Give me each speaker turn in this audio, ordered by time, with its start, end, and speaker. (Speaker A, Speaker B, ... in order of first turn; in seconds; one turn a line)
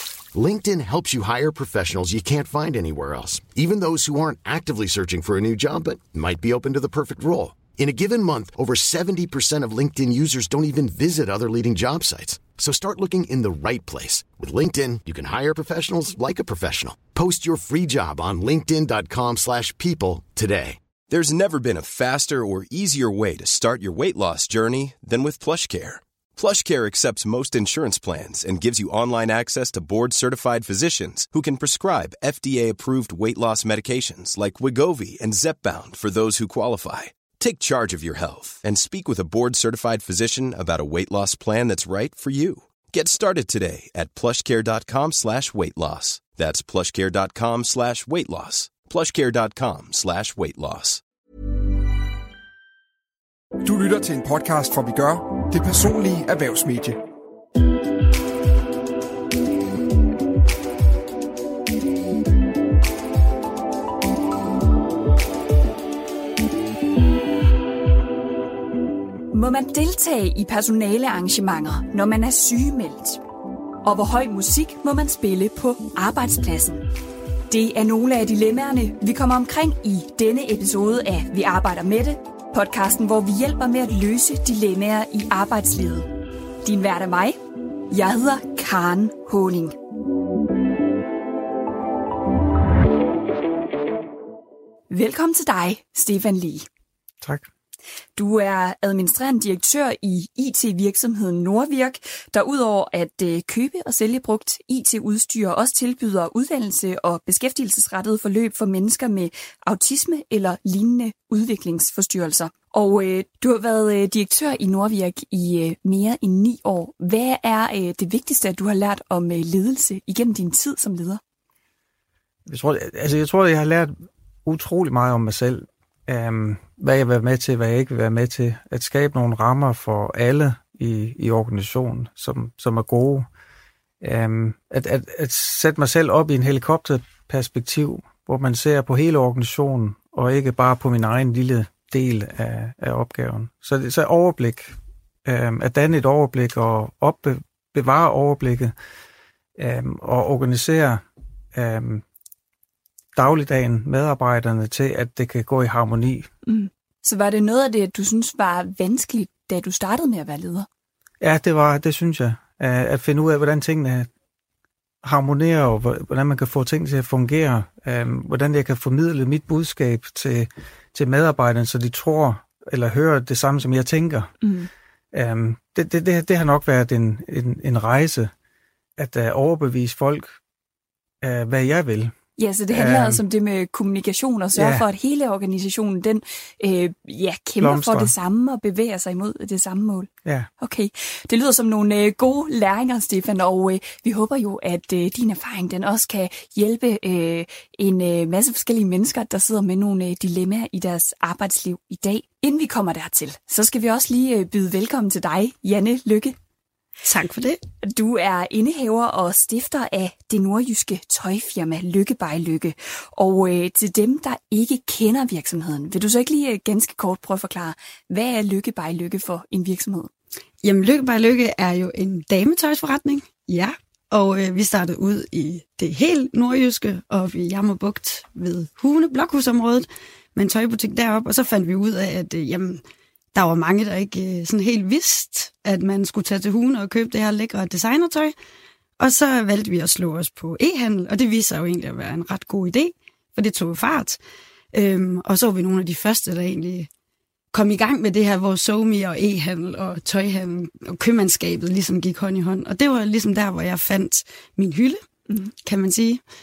Speaker A: 0.3-20.8
Speaker B: 21.1-51.0
Speaker C: 53.6-57.0
Speaker D: 69.3-73.2
Speaker D: 73.8-76.8
Speaker D: 77.5-86.1
Speaker D: 86.6-87.4
Speaker D: 87.9-89.8
Speaker D: 94.9-96.7
Speaker D: 98.2-121.2
Speaker E: 122.5-133.3
Speaker E: 134.0-148.7
Speaker E: 149.6-151.0
Speaker E: 151.5-152.0
Speaker E: 153.2-156.3
Speaker D: 156.4-160.7
Speaker E: 161.2-164.1
Speaker E: 165.0-174.3
Speaker D: 174.4-174.7
Speaker E: 175.1-178.3
Speaker E: 179.0-180.4
Speaker E: 181.2-182.2
Speaker D: 182.4-190.1
Speaker E: 182.7-183.2
Speaker E: 184.6-184.9
Speaker E: 187.6-188.1
Speaker E: 190.2-190.5
Speaker D: 190.6-206.4
Speaker F: 207.1-207.6
Speaker D: 207.8-220.1
Speaker F: 220.6-232.8
Speaker F: 233.3-238.3
Speaker F: 239.0-244.2
Speaker F: 244.7-246.9
Speaker F: 247.5-255.0
Speaker F: 255.6-256.2